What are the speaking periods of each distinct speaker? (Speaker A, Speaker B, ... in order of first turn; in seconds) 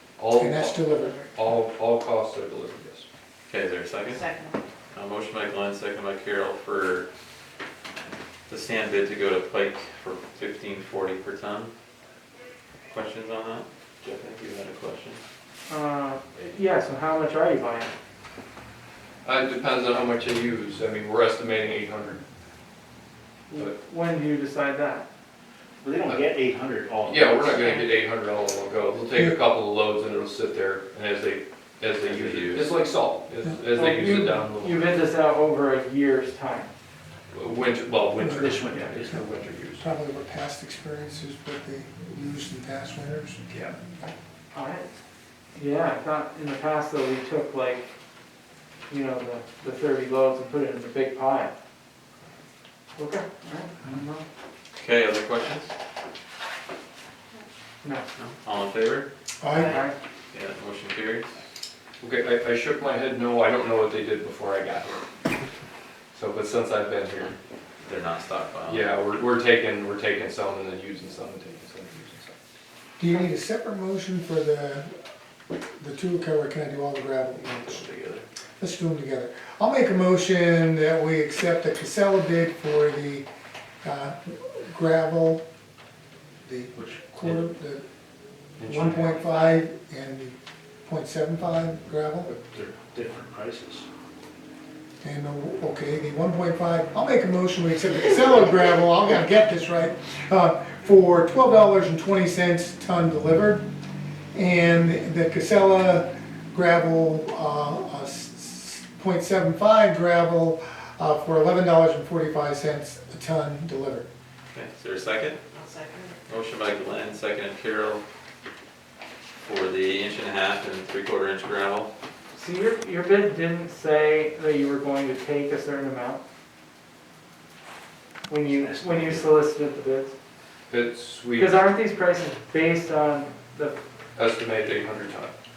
Speaker A: 0.2-3.0, 19.2-22.2, 27.0-35.0, 37.3-39.8, 62.0-65.0, 66.1-67.3, 68.7-72.3, 77.5-78.2, 88.6-89.2, 130.7-131.7, 134.2-135.3
Speaker B: 0.3-1.2, 38.2-38.5, 39.8-43.4, 59.4-59.8, 73.0-74.9, 75.8-77.8, 78.6-83.2, 83.8-85.4, 86.4-87.8, 88.6-90.3, 90.8-92.3, 95.0-103.6, 104.3-114.1
Speaker C: 0.9-1.3, 4.1-4.6, 59.5-59.8, 115.5-116.2
Speaker D: 3.5-4.2, 4.9-7.1, 8.5-11.7, 12.9-15.2, 32.0-32.8, 54.7-55.7, 58.1-59.1, 60.3-61.4, 67.8-68.9, 114.5-115.4, 116.3-118.0, 119.4-121.9
Speaker E: 15.7-17.9, 23.5-25.1, 33.7-36.7, 44.5-44.9, 45.5-47.9, 48.9-51.5, 53.0-54.2, 57.8-58.1, 59.6-59.9, 122.3-126.2, 128.3-130.1, 131.4-133.8
Speaker F: 25.8-27.8, 38.2-39.3, 92.3-93.8, 128.5-129.3